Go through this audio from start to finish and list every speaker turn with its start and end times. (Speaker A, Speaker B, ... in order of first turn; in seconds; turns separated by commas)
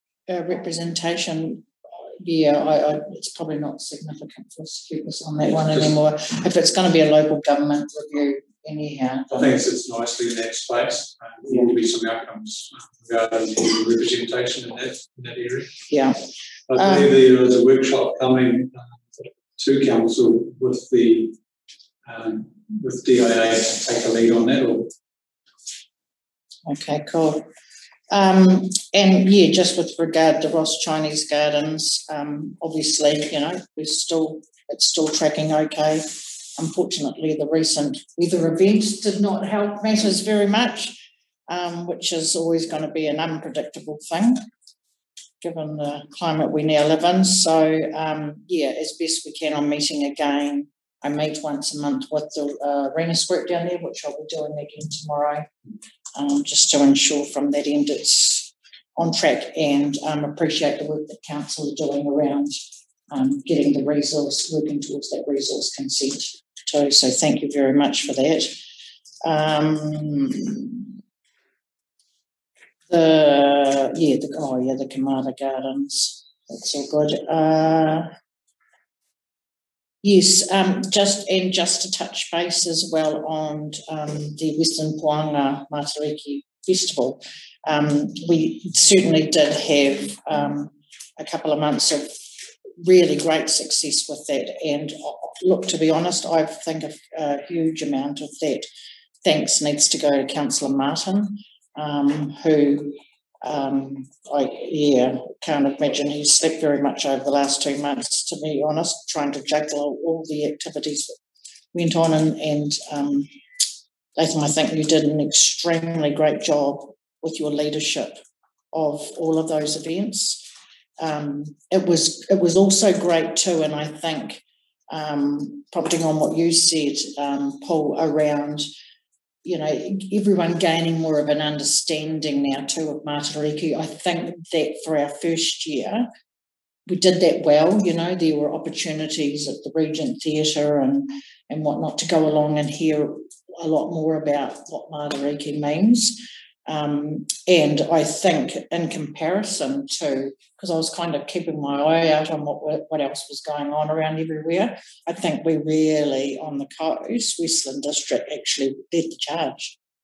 Speaker A: 0.3-9.5, Speaker B: 5.5-5.9, Speaker B: 9.3-15.7, Speaker A: 15.9-16.2, Speaker B: 16.7-21.3, Speaker A: 16.7-17.1, Speaker B: 22.1-24.9, Speaker A: 26.6-27.5, Speaker A: 28.1-44.5, Speaker A: 45.4-55.5, Speaker A: 56.1-62.6, Speaker A: 63.1-68.6, Speaker A: 69.2-71.0, Speaker A: 72.9-78.1, Speaker A: 80.0-92.1, Speaker A: 92.8-98.7, Speaker A: 99.2-111.2, Speaker A: 111.7-113.3, Speaker A: 114.2-118.2, Speaker A: 118.7-120.5, Speaker A: 121.0-128.7, Speaker A: 129.4-136.1, Speaker A: 136.8-159.8